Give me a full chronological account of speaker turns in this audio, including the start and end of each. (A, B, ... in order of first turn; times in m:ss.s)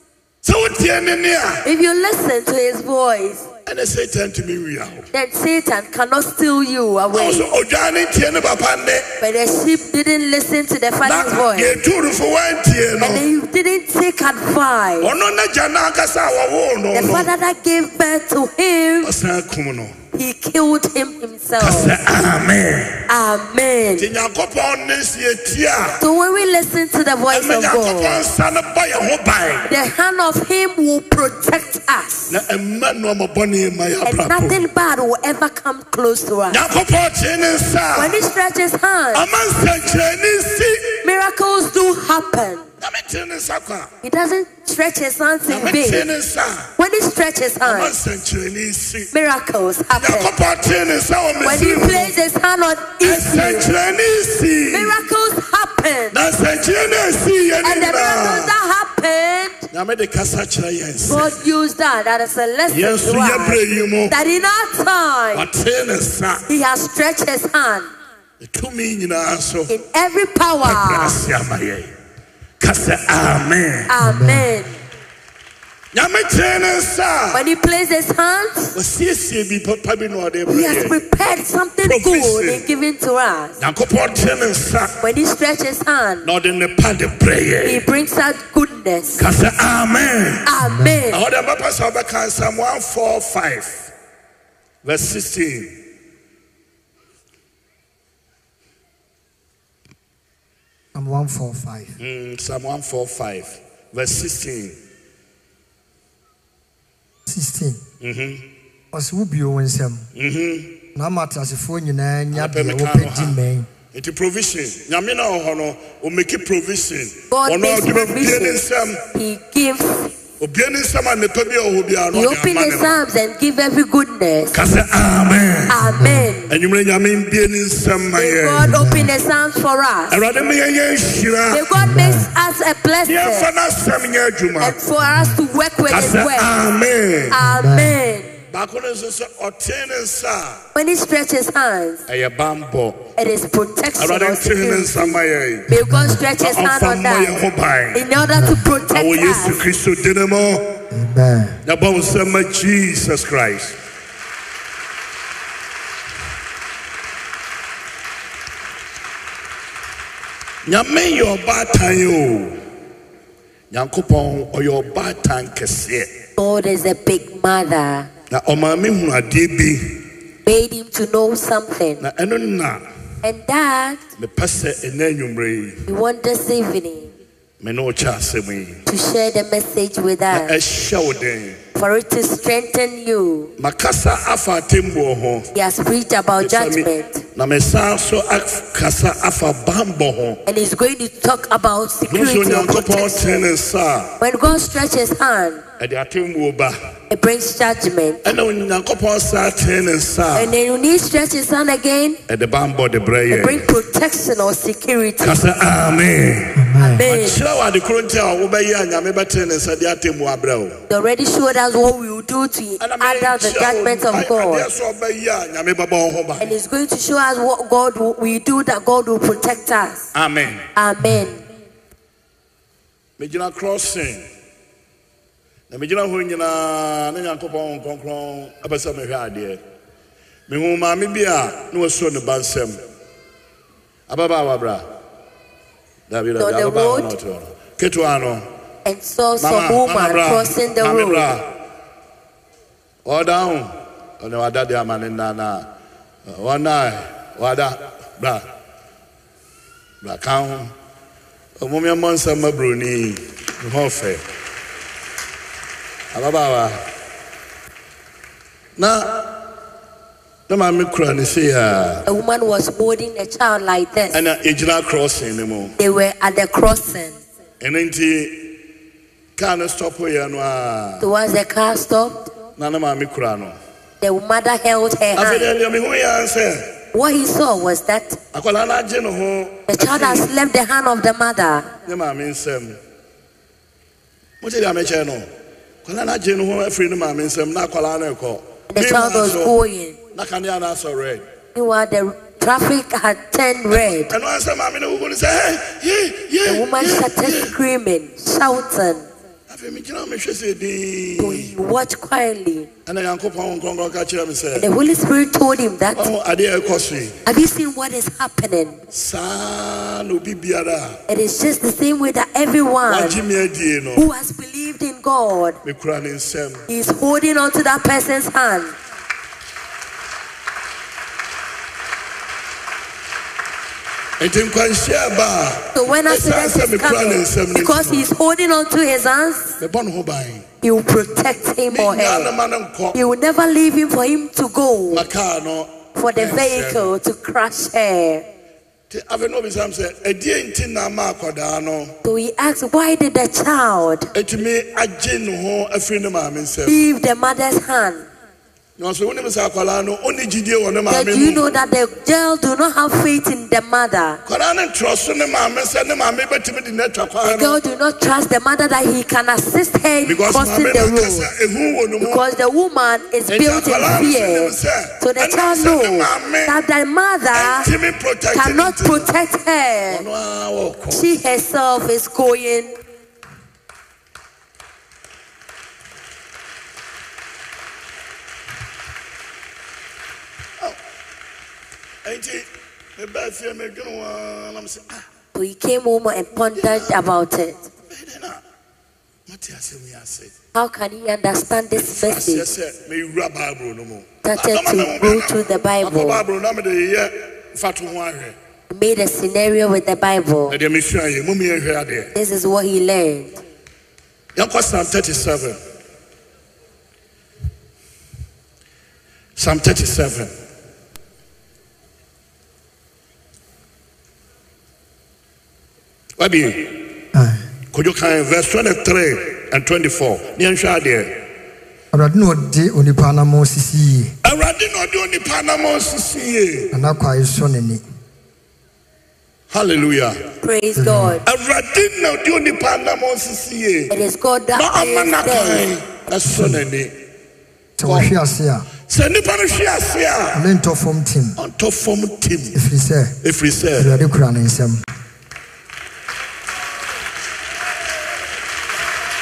0:00.4-0:01.6 A
0:01.6-0:03.5 B
0:03.6-0:05.1 A
0:05.1-0:07.5 B
0:07.1-0:09.1 A
0:09.2-0:11.8 B
0:11.0-0:13.2 A
0:13.0-0:15.1 B
0:15.0-0:17.3 A
0:16.9-0:19.1 B
0:19.0-0:20.0 A
0:20.1-0:22.0 B
0:21.6-0:23.0 A
0:23.1-0:24.1 B
0:24.0-0:26.0 A
0:26.0-0:28.2 B
0:27.3-0:29.7 A
0:29.7-0:32.4 B
0:32.3-0:34.6 A
0:34.0-0:36.6 B
0:36.5-0:38.2 A
0:37.9-0:39.2 B
0:39.1-0:41.0 A
0:41.0-0:42.6 B
0:42.8-0:43.9 A
0:44.0-0:46.1 B
0:45.5-0:46.7 A
0:46.8-0:47.9 B
0:47.6-0:49.1 A
0:49.1-0:50.3 B
0:49.9-0:52.1 A
0:51.4-0:53.7 B
0:53.0-0:55.0 A
0:54.7-0:56.2 B
0:56.1-0:58.5 A
0:57.6-0:59.7 B
0:59.7-1:01.3 A
1:01.1-1:05.5 B
1:02.7-1:04.1 A
1:05.3-1:06.4 A
1:06.5-1:07.9 B
1:08.4-1:09.7 A
1:09.7-1:11.2 B
1:10.6-1:11.9 A
1:12.6-1:13.9 A
1:13.9-1:14.7 B
1:14.0-1:14.5 C
1:15.9-1:17.4 A
1:17.3-1:18.7 B
1:18.7-1:21.0 A
1:20.5-1:23.6 B
1:21.8-1:22.6 A
1:23.6-1:25.0 A
1:25.0-1:26.3 B
1:26.2-1:27.8 A
1:27.6-1:29.2 B
1:29.2-1:30.5 A
1:30.4-1:31.2 B
1:30.6-1:31.1 C
1:31.1-1:33.9 A
1:34.8-1:35.7 A
1:40.9-1:42.0 C
1:42.0-1:44.8 A
1:47.2-1:47.8 C
1:48.0-1:48.4 A
1:48.9-1:50.1 C
1:50.1-1:50.8 A
1:50.9-1:53.7 C
1:52.3-1:53.4 A
1:53.9-1:59.0 A
1:57.3-1:58.6 B
1:59.1-2:00.1 B
2:00.4-2:03.0 A
2:02.1-2:04.6 B
2:04.5-2:05.8 A
2:05.7-2:06.5 B
2:05.9-2:06.3 C
2:06.5-2:08.7 A
2:08.2-2:10.2 B
2:08.6-2:09.1 C
2:10.1-2:11.6 A
2:11.5-2:13.5 B
2:11.7-2:12.3 C
2:13.0-2:14.8 A
2:14.6-2:16.6 B
2:15.0-2:15.4 C
2:15.9-2:17.4 A
2:17.3-2:18.3 B
2:17.4-2:18.0 C
2:18.5-2:20.6 A
2:20.7-2:22.0 B
2:22.1-2:23.1 A
2:23.2-2:27.4 B
2:24.0-2:25.7 A
2:25.7-2:26.2 C
2:26.4-2:28.0 A
2:27.9-2:29.6 B
2:28.2-2:28.7 C
2:28.9-2:30.8 A
2:30.9-2:31.6 C
2:31.6-2:33.8 A
2:40.6-2:42.6 A
2:43.7-2:46.2 A
2:46.4-2:48.1 B
2:48.3-2:50.0 A
2:50.4-2:52.0 B
2:52.0-2:52.8 A
2:53.2-2:54.0 B
2:54.2-2:55.8 A
2:55.9-2:57.1 B
2:57.6-2:58.8 A
2:58.9-3:00.6 B
3:00.3-3:01.6 A
3:01.8-3:03.5 B
3:03.6-3:05.5 A
3:05.5-3:07.2 B
3:06.4-3:10.4 A
3:10.4-3:13.4 B
3:12.1-3:14.2 A
3:14.2-3:15.6 B
3:15.8-3:16.8 A
3:17.1-3:18.2 B
3:18.2-3:20.5 A
3:20.3-3:22.2 B
3:22.3-3:23.7 A
3:23.3-3:25.4 B
3:25.2-3:30.8 A
3:26.6-3:27.0 C
3:26.8-3:27.4 B
3:30.9-3:34.7 B
3:32.8-3:36.5 A
3:36.4-3:40.1 B
3:40.1-3:40.6 A
3:40.7-3:41.4 B
3:43.2-3:44.3 A
3:45.7-3:49.6 A
3:50.5-3:52.8 A
3:54.1-3:54.8 A
3:56.1-3:58.4 A
3:56.4-3:57.1 B
3:58.8-4:01.3 B
3:59.4-4:01.5 A
4:03.0-4:05.7 A
4:06.3-4:08.5 A
4:10.0-4:10.7 A
4:11.6-4:14.2 A
4:16.1-4:16.8 A
4:18.8-4:19.4 A
4:20.5-4:22.0 A
4:22.1-4:24.2 B
4:24.1-4:25.7 A
4:25.8-4:27.2 B
4:27.6-4:28.5 A
4:29.4-4:31.1 A
4:31.0-4:32.3 B
4:32.6-4:33.6 A
4:34.0-4:35.5 B
4:35.2-4:36.8 A
4:36.9-4:38.2 B
4:38.3-4:40.3 A
4:39.7-4:41.7 B
4:41.8-4:42.8 A
4:44.4-4:45.3 A
4:45.8-4:49.5 A
4:48.7-4:50.0 B
4:50.1-4:51.2 A
4:51.5-4:54.1 B
4:53.7-4:57.5 A
4:56.4-4:59.0 B
4:59.5-5:01.5 A
5:01.2-5:02.7 B
5:02.8-5:04.7 A
5:04.6-5:06.1 B
5:05.9-5:07.2 A
5:07.2-5:08.8 B
5:08.9-5:11.0 A
5:11.1-5:13.2 B
5:12.9-5:14.0 A
5:14.0-5:15.6 B
5:15.6-5:16.6 A
5:16.7-5:18.7 B
5:24.2-5:28.0 A
5:25.7-5:29.6 B
5:29.6-5:30.4 A
5:30.6-5:32.3 B
5:31.7-5:33.0 A
5:32.9-5:35.1 B
5:34.9-5:36.9 A
5:36.0-5:38.2 B
5:38.9-5:41.9 A
5:42.0-5:44.1 B
5:44.1-5:46.8 A
5:46.6-5:48.1 B
5:48.8-5:51.4 A
5:50.9-5:54.2 B
5:54.2-5:57.6 A
5:57.2-6:01.3 B
6:00.0-6:02.2 A
6:02.0-6:07.7 B
6:03.3-6:06.6 A
6:07.3-6:09.1 A
6:08.3-6:10.0 B
6:09.9-6:11.1 A
6:10.9-6:12.8 B
6:22.0-6:25.0 A
6:25.3-6:27.7 B
6:26.5-6:27.0 A
6:27.9-6:28.4 A
6:29.3-6:30.3 A
6:30.5-6:32.5 B
6:31.7-6:38.4 A
6:34.2-6:36.2 B
6:38.7-6:40.6 B
6:40.5-6:42.1 A
6:42.1-6:43.4 B
6:44.4-6:45.6 A
6:49.4-6:50.3 A
6:56.2-6:56.9 A
6:57.1-6:57.4 C
6:57.7-7:01.2 A
7:01.9-7:04.1 C
7:04.2-7:06.7 A
7:06.7-7:07.8 C
7:09.5-7:10.2 A
7:10.4-7:11.2 B
7:10.7-7:11.2 C
7:11.2-7:13.9 A
7:13.9-7:15.7 B
7:14.5-7:16.9 A
7:16.3-7:16.6 C
7:17.8-7:18.7 C
7:17.8-7:18.1 A
7:18.9-7:20.4 A
7:20.3-7:21.4 C
7:21.4-7:22.6 A
7:22.5-7:23.2 C
7:23.2-7:24.0 A
7:23.8-7:24.8 C